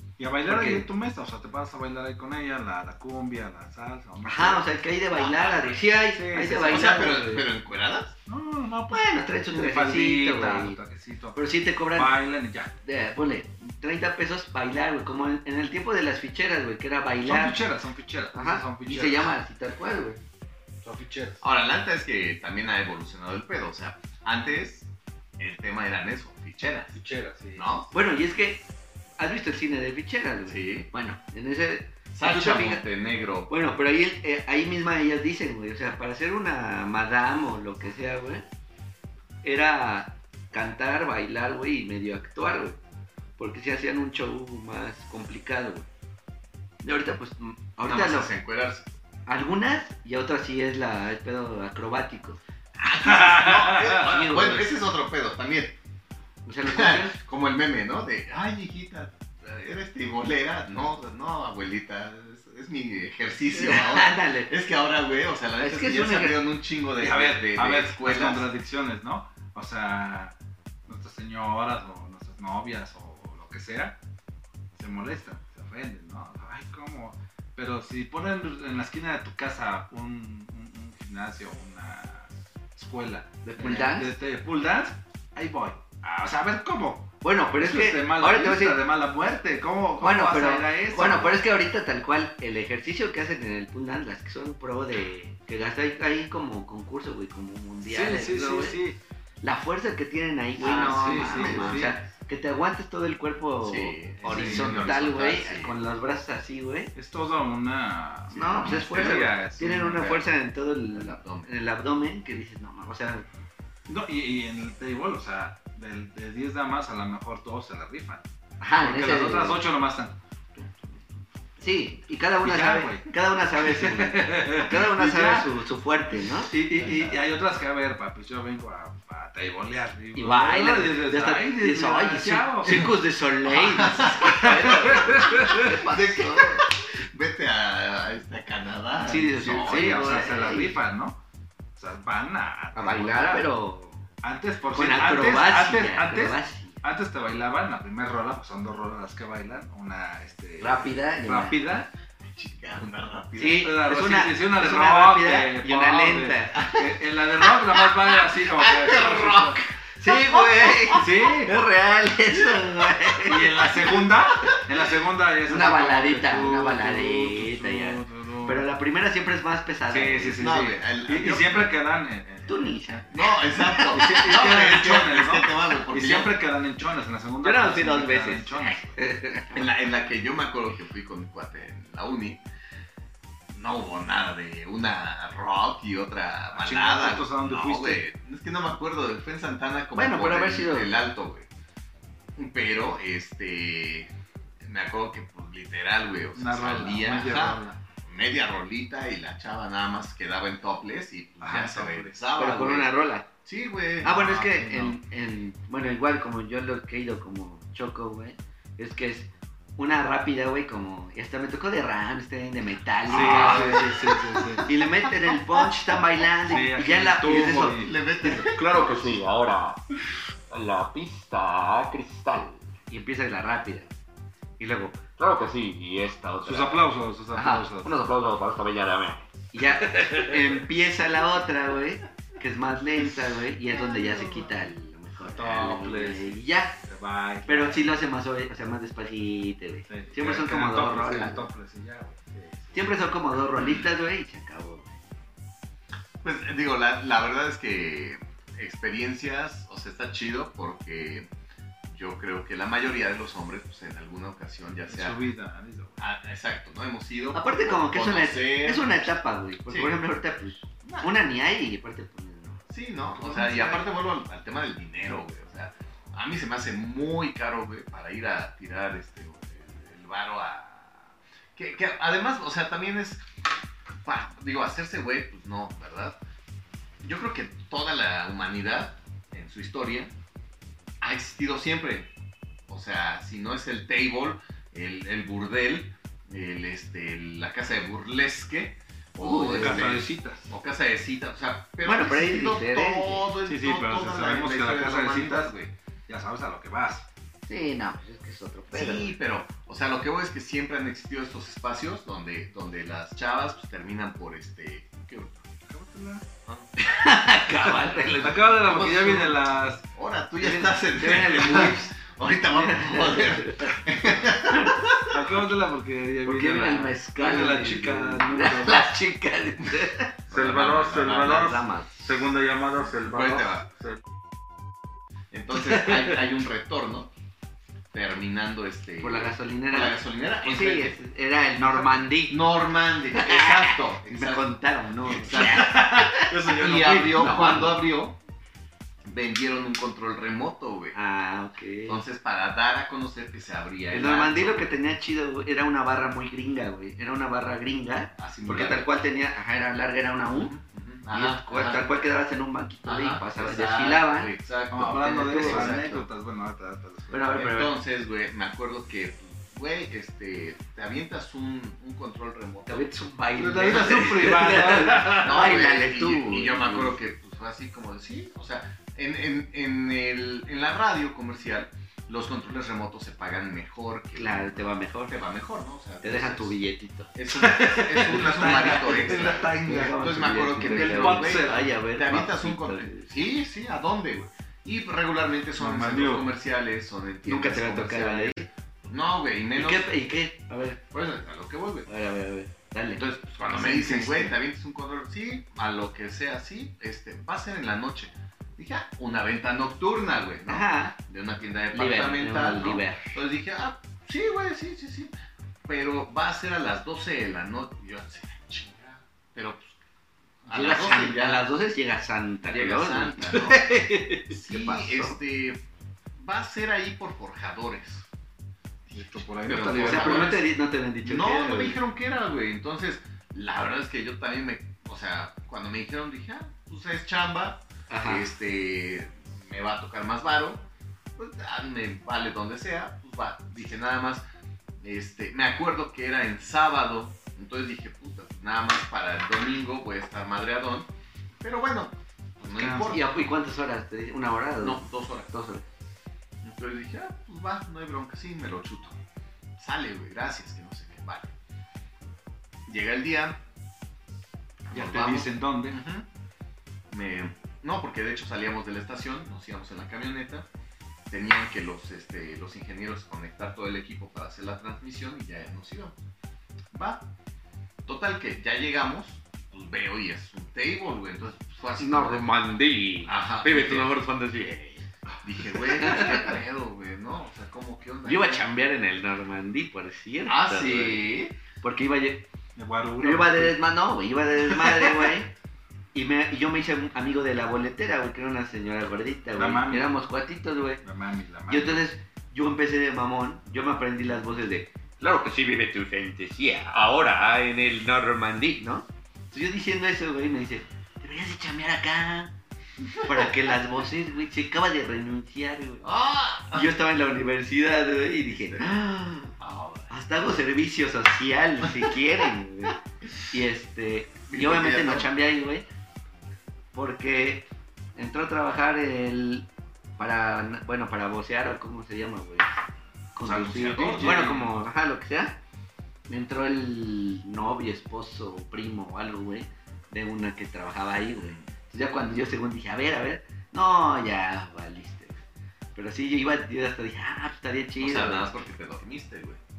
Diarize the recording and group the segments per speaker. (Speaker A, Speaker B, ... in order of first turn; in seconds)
Speaker A: 0.2-4.7, 6.1-7.4, 8.2-11.4, 11.9-12.7, 17.2-19.3, 20.8-21.4, 26.9-27.7, 53.2-54.0, 67.0-70.3, 70.9-74.0, 74.7-91.4, 97.8-99.0, 100.6-101.9, 104.2-105.0, 106.9-110.2, 113.9-118.2, 118.8-121.0, 122.4-125.5, 126.4-132.9, 134.2-135.8, 139.4-141.2, 141.8-143.5, 144.2-151.9, 153.6-159.6, 160.9-161.6, 163.2-168.7, 169.9-179.0, 186.5-188.0, 196.3-197.8, 201.4-202.1, 204.0-205.0, 213.1-214.7, 216.5-217.9, 226.4-228.0, 229.8-230.3, 235.2-237.9, 239.9-243.0, 254.9-256.0, 263.3-263.6, 289.5-290.5, 293.4-295.6, 296.1-297.1, 305.6-306.2, 308.2-309.8, 315.1-319.0, 320.3-324.0, 335.3-337.3, 354.7-357.3, 363.4-365.6, 377.3-380.0, 380.6-381.6, 385.6-386.3, 393.4-393.8, 418.9-420.4, 454.7-455.8, 482.6-483.6, 484.6-484.9, 489.3-490.0, 490.8-491.9, 523.2-524.5
Speaker B: 0.4-0.8, 4.2-7.2, 8.9-10.8, 11.3-12.1, 12.8-17.6, 18.3-20.2, 27.9-28.6, 29.2-32.8, 33.5-38.5, 39.4-42.8, 43.4-45.9, 46.8-48.3, 49.2-52.4, 53.8-54.7, 56.5-57.2, 63.5-64.5, 65.6-66.4, 83.4-84.1, 87.2-88.8, 90.0-98.8, 99.4-106.9, 108.3-113.2, 118.6-119.6, 121.6-127.2, 130.2-136.6, 139.0-140.8, 142.7-144.1, 144.7-146.8, 150.6-151.6, 153.4-156.8, 158.6-163.9, 165.5-170.6, 172.5-174.3, 177.4-179.7, 189.9-190.9, 202.3-203.3, 204.0-214.0, 214.6-217.8, 222.9-223.9, 224.6-225.0, 227.3-228.0, 229.5-236.8, 237.4-241.4, 242.7-244.9, 257.3-262.6, 263.2-263.8, 289.2-290.0, 291.8-293.3, 297.5-299.1, 306.8-308.5, 310.4-314.8, 316.2-320.1, 321.1-322.0, 329.0-332.4, 333.1-337.8, 340.9-342.0, 343.9-350.5, 351.1-356.0, 357.1-357.7, 362.6-366.9, 374.1-375.2, 376.0-377.1, 378.1-383.1, 387.2-388.5, 389.5-390.8, 391.9-394.4, 400.5-400.9, 401.7-403.1, 410.5-415.2, 419.5-421.8, 427.9-428.3, 442.4-445.6, 474.4-474.6, 475.8-476.3, 478.0-481.0, 481.6-482.3, 483.0-485.3, 485.9-490.8, 491.5-494.8, 498.1-502.3, 503.0-505.9, 506.5-509.3, 509.9-515.6, 516.7-522.6, 523.1-525.4, 526.1-535.2, 535.7-538.3
Speaker C: 5.1-5.7, 6.7-8.2, 21.4-26.9, 27.5-27.9, 30.5-30.9, 32.1-33.5, 47.8-48.9, 52.8-55.8, 56.6-68.5, 100.6-102.0, 103.6-105.8, 108.3-109.3, 110.9-111.5, 133.4-134.5, 135.5-140.2, 152.2-153.7, 158.7-159.5, 160.2-161.0, 162.3-162.9, 163.8-164.6, 170.4-171.7, 173.1-176.3, 179.5-182.4, 183.5-191.5, 192.3-202.9, 203.4-204.2, 213.1-214.7, 215.2-215.7, 217.2-219.1, 246.2-251.3, 251.8-255.2, 256.0-259.9, 260.8-261.1, 262.7-273.2, 274.0-276.2, 277.0-280.1, 281.0-282.1, 282.7-295.7, 298.7-305.4, 307.9-315.2, 320.3-321.5, 322.8-323.7, 325.3-327.1, 327.9-331.0, 331.7-334.5, 335.0-338.2, 339.0-341.0, 341.9-344.7, 348.2-348.9, 350.3-351.8, 352.8-356.0, 357.3-362.9, 365.1-376.6, 377.1-389.9, 390.9-391.9, 393.0-405.1, 405.7-409.8, 410.4-411.4, 412.5-413.8, 414.3-415.6, 416.1-418.1, 418.9-420.4, 421.0-434.2, 434.8-440.9, 441.4-443.1, 444.6-445.3, 446.4-449.0, 449.6-451.3, 452.7-453.4, 454.7-456.1, 456.9-460.5, 461.1-466.0, 466.7-467.1, 467.8-472.4, 473.0-473.9, 475.2-478.4, 480.2-481.3, 505.8-506.7, 508.3-508.7, 509.4-510.0, 514.3-515.1, 523.3-524.2, 531.2-531.5, 537.8-539.4
Speaker D: 218.2-219.8, 220.5-222.6, 225.2-226.8, 227.8-229.2, 471.8-474.5, 495.0-498.2